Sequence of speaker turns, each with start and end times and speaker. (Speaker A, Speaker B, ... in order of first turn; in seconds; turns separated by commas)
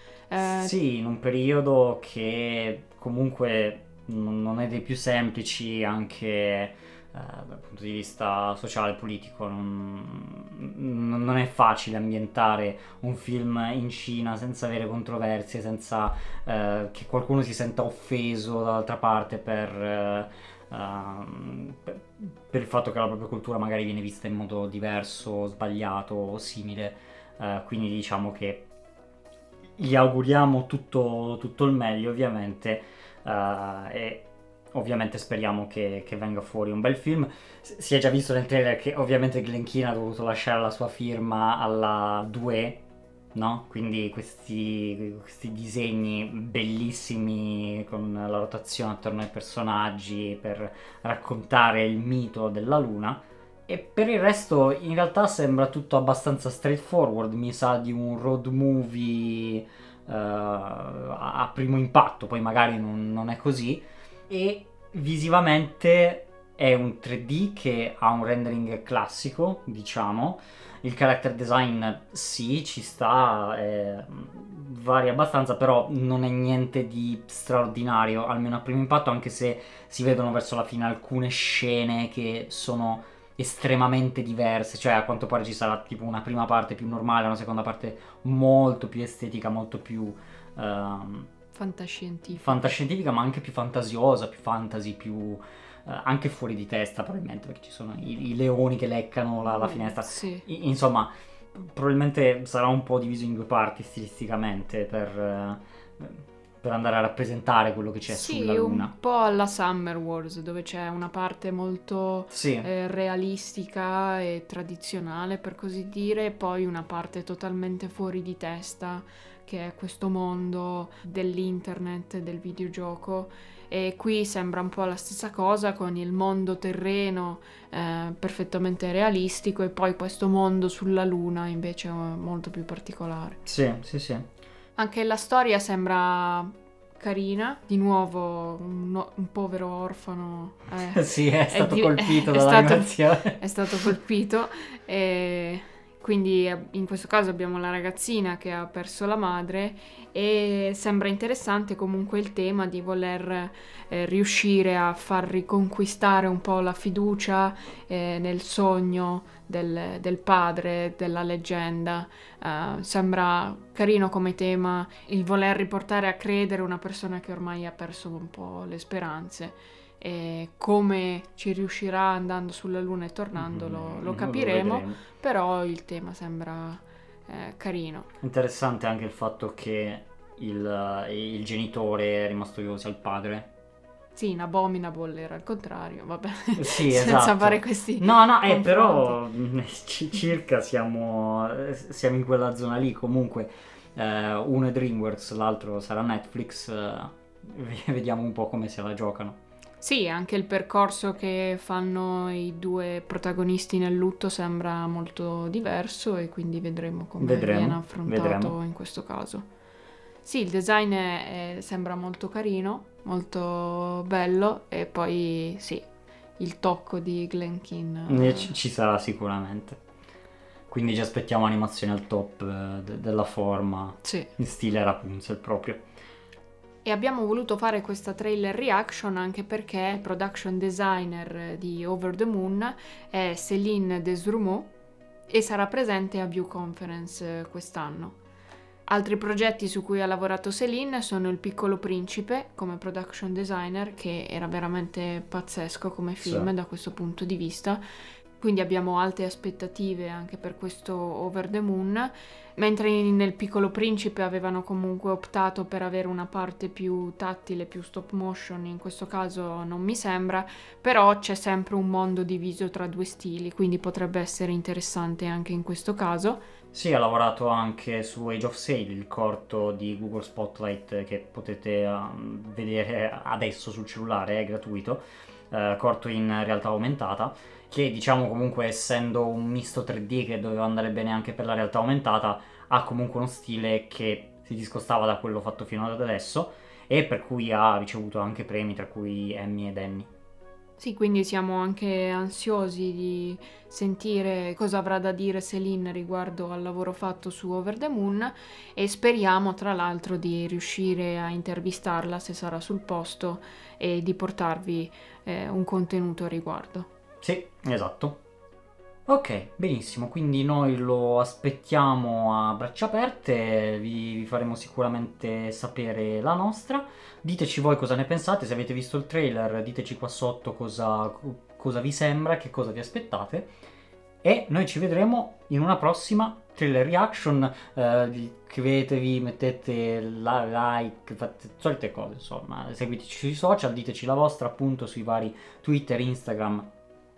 Speaker A: 0.3-0.7, Speaker B: 0.4-28.6, Speaker B: 29.8-42.8, Speaker B: 43.3-91.3, Speaker A: 91.5-92.7, Speaker B: 92.3-108.9, Speaker A: 99.5-100.5, Speaker A: 108.1-133.4, Speaker B: 112.3-112.7, Speaker B: 133.4-134.2, Speaker A: 134.8-178.1, Speaker B: 140.9-143.4, Speaker B: 173.4-175.0, Speaker B: 178.2-183.5, Speaker A: 184.1-189.2, Speaker B: 186.6-199.4, Speaker A: 199.8-209.4, Speaker B: 207.2-208.6, Speaker A: 210.2-215.9, Speaker A: 216.4-218.6, Speaker B: 218.1-219.8, Speaker B: 220.7-225.8, Speaker A: 224.0-224.3, Speaker A: 226.8-234.7, Speaker A: 235.3-238.2, Speaker A: 238.9-247.8, Speaker B: 246.2-246.5, Speaker A: 248.4-266.4, Speaker B: 266.7-290.1, Speaker A: 290.8-306.9, Speaker B: 307.2-308.2, Speaker B: 309.1-323.5, Speaker B: 324.2-336.7